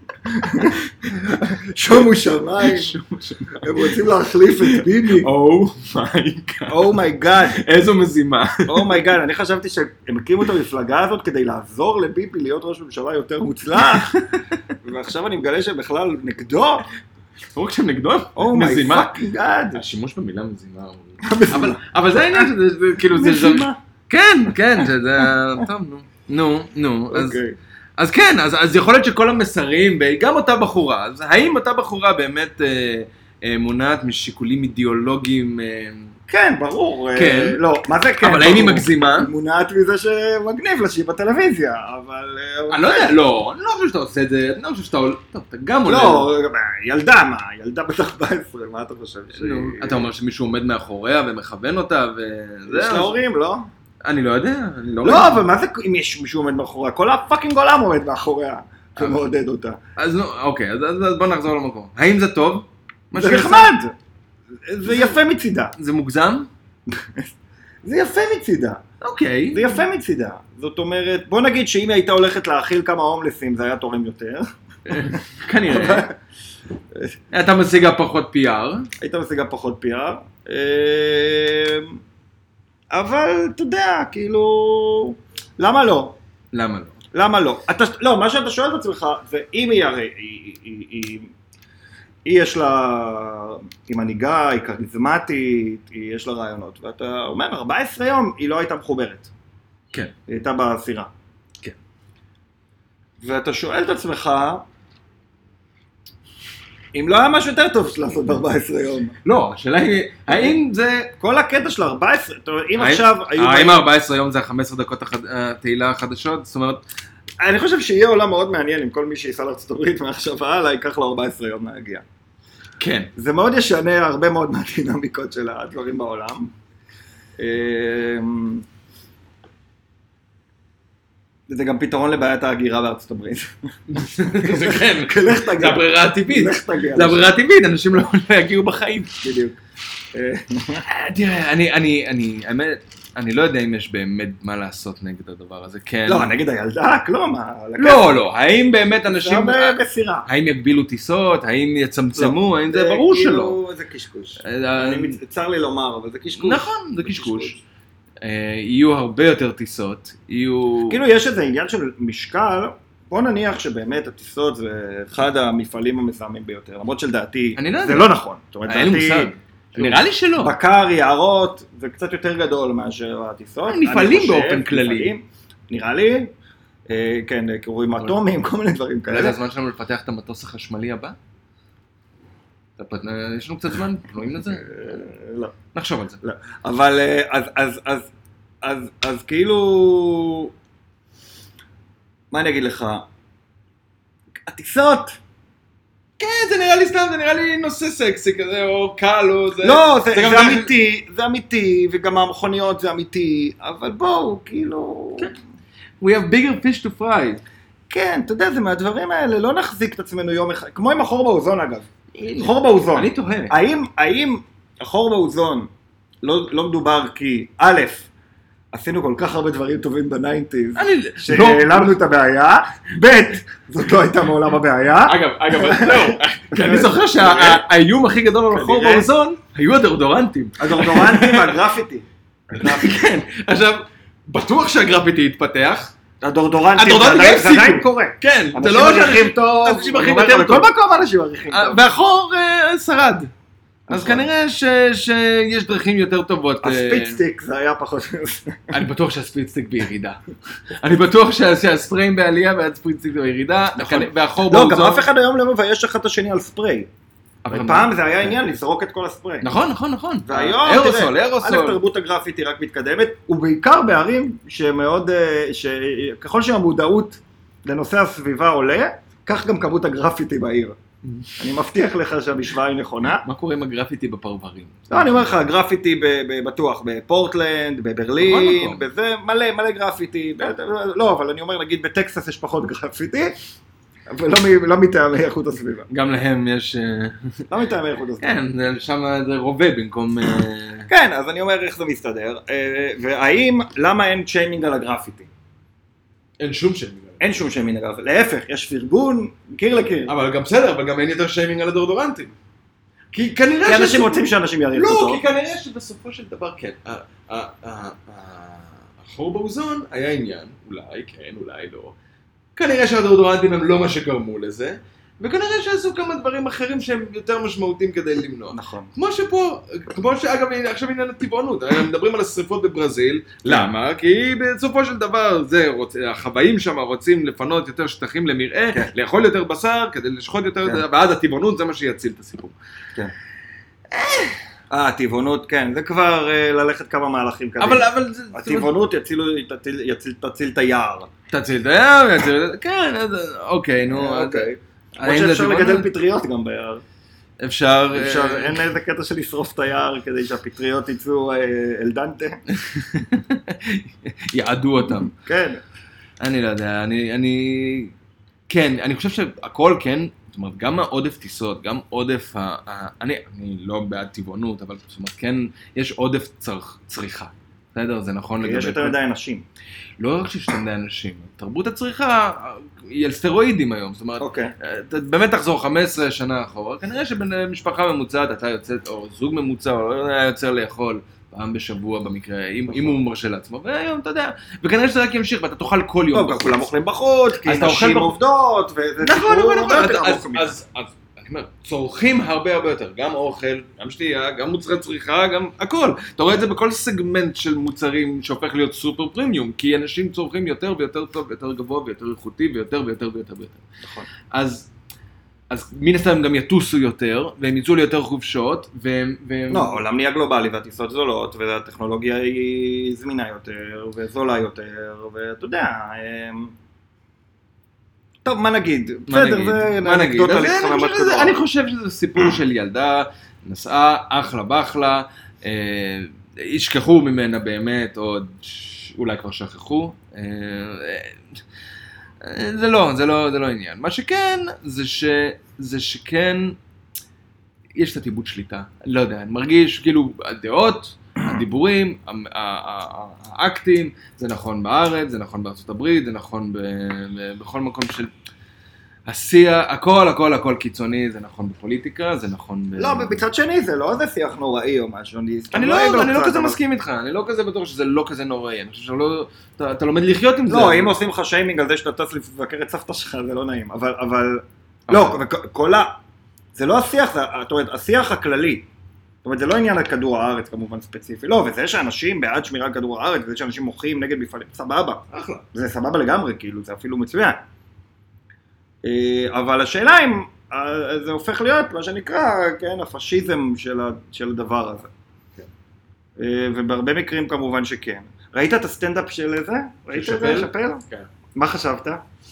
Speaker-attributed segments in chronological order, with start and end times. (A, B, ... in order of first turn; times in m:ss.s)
0:00.2-0:03.0 A
0:01.2-0:01.6 B
0:02.6-0:04.0 B
0:03.5-0:05.3 A
0:04.6-0:09.0 B
0:06.7-0:07.6 A
0:08.6-0:14.2 A
0:14.8-0:16.8 A
0:17.5-0:19.2 B
0:18.4-0:19.8 A
0:19.7-0:27.4 B
0:21.2-0:22.5 A
0:23.1-0:23.8 A
0:24.8-0:25.3 A
0:27.1-0:27.6 A
0:28.0-0:36.1 B
0:36.3-0:43.1 A
0:37.2-0:37.6 B
0:38.2-0:39.3 B
0:42.7-0:46.3 B
0:45.8-0:50.1 A
0:49.3-0:53.2 B
0:52.7-0:53.7 A
0:54.0-0:55.4 B
0:55.0-0:59.8 A
1:00.0-1:03.7 B
1:03.1-1:03.9 A
1:04.6-1:05.7 A
1:05.8-1:06.5 B
1:06.9-1:07.3 A
1:07.8-1:08.8 A
1:09.0-1:09.8 B
1:09.5-1:16.2 A
1:14.8-1:16.1 B
1:17.3-1:18.9 B
1:19.0-1:22.0 A
1:22.9-1:26.2 A
1:26.5-1:27.0 B
1:27.1-1:31.3 A
1:32.2-1:39.3 A
1:40.3-1:41.1 A
1:43.2-1:44.6 A
1:46.9-1:49.2 A
1:49.2-1:51.1 B
1:50.3-1:50.6 A
1:51.2-1:53.8 A
1:52.8-1:56.8 B
1:57.4-2:02.0 A
2:02.8-2:03.1 B
2:03.1-2:06.5 A
2:07.4-2:08.6 A
2:11.5-2:13.5 A
2:13.9-2:19.1 B
2:14.4-2:17.3 A
2:19.2-2:19.6 A
2:20.1-2:20.8 A
2:20.8-2:26.3 B
2:26.1-2:28.2 A
2:27.8-2:33.6 B
2:29.0-2:30.2 A
2:32.2-2:37.6 A
2:34.4-2:35.2 B
2:36.4-2:37.6 B
2:38.2-2:41.0 B
2:40.9-2:56.3 A
2:47.6-2:48.1 B
2:48.7-2:50.6 B
2:53.7-2:55.1 B
2:56.9-2:59.4 A
2:59.1-3:01.2 B
3:02.8-3:05.0 B
3:04.4-3:05.5 A
3:05.7-3:06.2 B
3:06.2-3:08.1 A
3:08.6-3:10.5 A
3:12.3-3:13.0 A
3:14.4-3:15.2 A
3:16.2-3:20.7 B
3:19.6-3:25.3 A
3:26.0-3:27.4 B
3:27.9-3:35.7 A
3:32.1-3:33.6 B
3:36.2-3:38.1 A
3:38.7-3:47.6 A
3:40.8-3:42.0 B
3:45.0-3:51.6 B
3:48.5-3:49.1 A
3:50.6-3:52.9 A
3:52.5-3:55.9 B
3:56.2-4:01.9 A
3:56.8-4:00.7 B
4:01.5-4:03.3 B
4:03.9-4:04.3 A
4:03.9-4:07.2 B
4:06.6-4:08.7 A
4:08.7-4:15.1 B
4:13.7-4:16.9 A
4:17.4-4:18.3 B
4:17.5-4:19.5 A
4:19.4-4:21.8 B
4:20.2-4:30.8 A
4:31.0-4:31.4 B
4:31.4-4:33.2 A
4:33.1-4:35.3 B
4:34.9-4:43.4 A
4:38.2-4:38.8 B
4:44.1-4:45.9 A
4:45.9-4:47.4 B
4:47.5-4:48.4 A
4:48.2-4:50.9 B
4:50.9-4:55.3 A
4:56.4-4:57.2 B
4:57.2-5:00.1 A
5:00.1-5:02.3 B
5:03.1-5:11.9 B
5:03.6-5:05.2 A
5:12.6-5:32.5 B
5:18.5-5:18.9 A
5:33.9-5:34.4 B
5:34.7-5:41.1 A
5:37.6-5:38.7 B
5:41.3-5:45.9 B
5:43.9-5:46.8 A
5:47.4-5:48.6 B
5:47.9-5:52.4 A
5:52.5-5:55.1 B
5:54.8-5:55.6 A
5:56.2-5:57.9 B
5:58.5-6:09.0 B
6:08.4-6:09.4 A
6:10.0-6:26.7 B
6:14.2-6:14.5 A
6:26.1-6:30.5 A
6:27.4-6:28.2 B
6:29.0-6:43.6 B
6:44.3-6:44.7 B
6:45.5-6:49.8 B
6:49.5-6:56.5 A
6:58.2-7:01.4 A
6:59.1-7:11.4 B
7:12.2-7:16.6 B
7:17.8-7:28.1 B
7:29.0-7:33.2 B
7:32.8-7:36.6 A
7:35.5-7:40.9 B
7:40.5-7:46.0 A
7:44.9-7:45.2 B
7:46.5-7:48.7 A
7:49.2-7:57.4 A
7:55.1-7:55.4 B
7:58.8-8:04.9 A
8:06.2-8:10.8 A
8:09.9-8:11.1 B
8:11.3-8:12.0 A